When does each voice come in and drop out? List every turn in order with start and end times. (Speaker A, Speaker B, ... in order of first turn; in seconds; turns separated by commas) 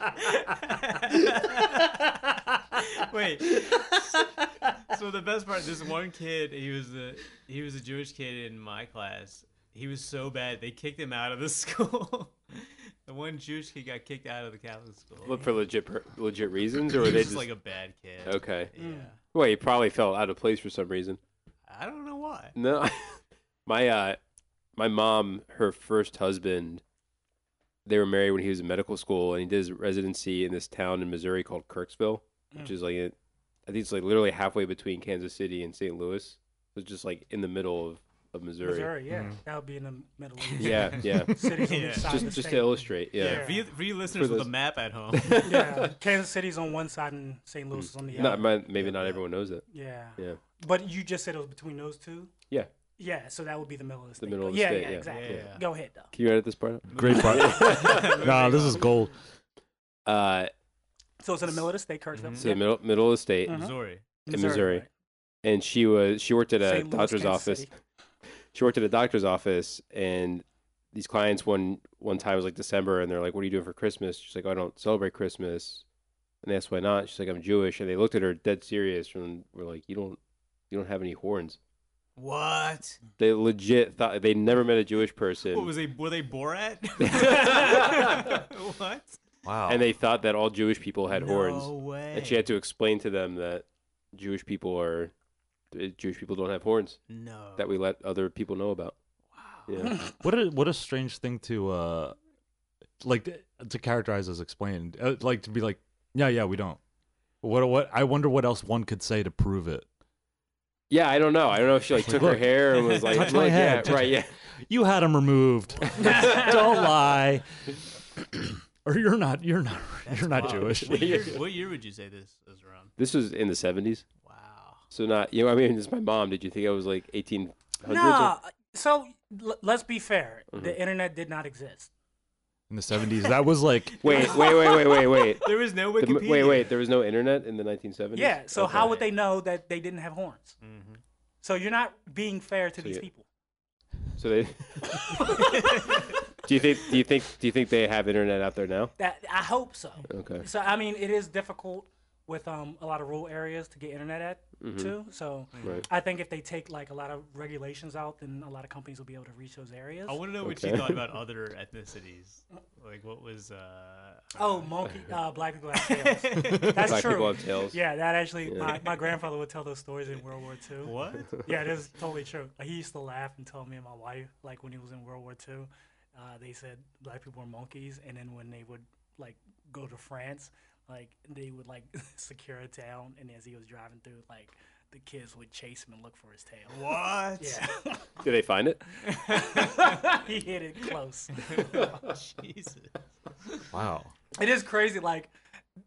Speaker A: 0.2-2.1, Speaker A: 2.7-15.5, Speaker B: 15.2-17.5, Speaker A: 16.9-19.2, Speaker B: 18.3-18.7, Speaker C: 18.8-19.1, Speaker B: 19.3-21.2, Speaker A: 21.7-22.6, Speaker B: 22.6-24.2, Speaker B: 24.8-26.8, Speaker B: 27.9-33.1, Speaker B: 33.7-39.0, Speaker C: 38.6-43.6, Speaker D: 39.1-39.4, Speaker A: 40.5-42.4, Speaker B: 40.6-43.5, Speaker A: 43.1-45.5, Speaker B: 44.1-44.5, Speaker B: 45.1-45.9, Speaker C: 45.4-49.0, Speaker B: 47.7-49.6, Speaker A: 48.1-49.2, Speaker C: 49.7-52.3, Speaker C: 53.0-56.1, Speaker B: 54.2-55.5, Speaker A: 55.1-55.6, Speaker B: 56.1-58.3, Speaker A: 56.9-58.9, Speaker D: 56.9-59.2, Speaker B: 60.1-60.5, Speaker C: 61.2-62.7, Speaker A: 62.1-62.6, Speaker B: 62.4-63.7, Speaker A: 63.5-64.0, Speaker C: 63.5-64.9, Speaker B: 64.3-64.8, Speaker B: 65.4-67.7, Speaker C: 66.6-67.7, Speaker B: 68.5-75.8, Speaker B: 76.4-80.2, Speaker B: 80.7-81.6, Speaker A: 82.2-83.0, Speaker B: 83.2-85.7, Speaker A: 85.5-89.2, Speaker B: 87.0-88.3, Speaker D: 89.4-89.8, Speaker B: 89.7-95.1, Speaker A: 91.1-92.5, Speaker B: 95.7-97.0, Speaker A: 97.1-97.8, Speaker B: 97.6-99.0, Speaker A: 99.3-99.7, Speaker B: 99.7-100.0, Speaker D: 100.0-102.2, Speaker D: 103.0-106.8, Speaker D: 107.4-109.9, Speaker B: 110.9-114.3, Speaker D: 112.0-117.5, Speaker A: 112.8-113.3, Speaker C: 116.0-116.5, Speaker B: 116.0-116.8, Speaker D: 118.2-121.3, Speaker A: 120.0-122.9, Speaker B: 120.5-121.4, Speaker B: 123.0-124.0, Speaker A: 124.2-124.8, Speaker B: 124.9-128.3, Speaker C: 127.9-131.9, Speaker B: 130.5-130.8, Speaker D: 132.7-134.3, Speaker A: 133.2-136.8, Speaker B: 134.0-139.0, Speaker C: 138.1-140.6, Speaker A: 140.6-141.0, Speaker C: 141.4-143.3, Speaker B: 144.2-145.6, Speaker C: 144.9-145.9, Speaker A: 145.3-146.2, Speaker B: 146.3-148.9, Speaker C: 149.0-160.2, Speaker B: 150.1-150.4, Speaker B: 154.6-154.9, Speaker A: 155.5-155.8, Speaker A: 160.1-164.7, Speaker B: 160.4-161.0, Speaker C: 164.3-186.8, Speaker A: 165.8-167.2, Speaker B: 166.8-167.8, Speaker B: 168.5-168.8, Speaker A: 170.8-171.5, Speaker A: 186.7-187.6, Speaker C: 187.4-188.1, Speaker B: 188.2-188.9, Speaker A: 189.1-190.1, Speaker C: 189.2-192.0, Speaker A: 191.4-192.9, Speaker D: 193.7-194.1, Speaker C: 194.4-195.3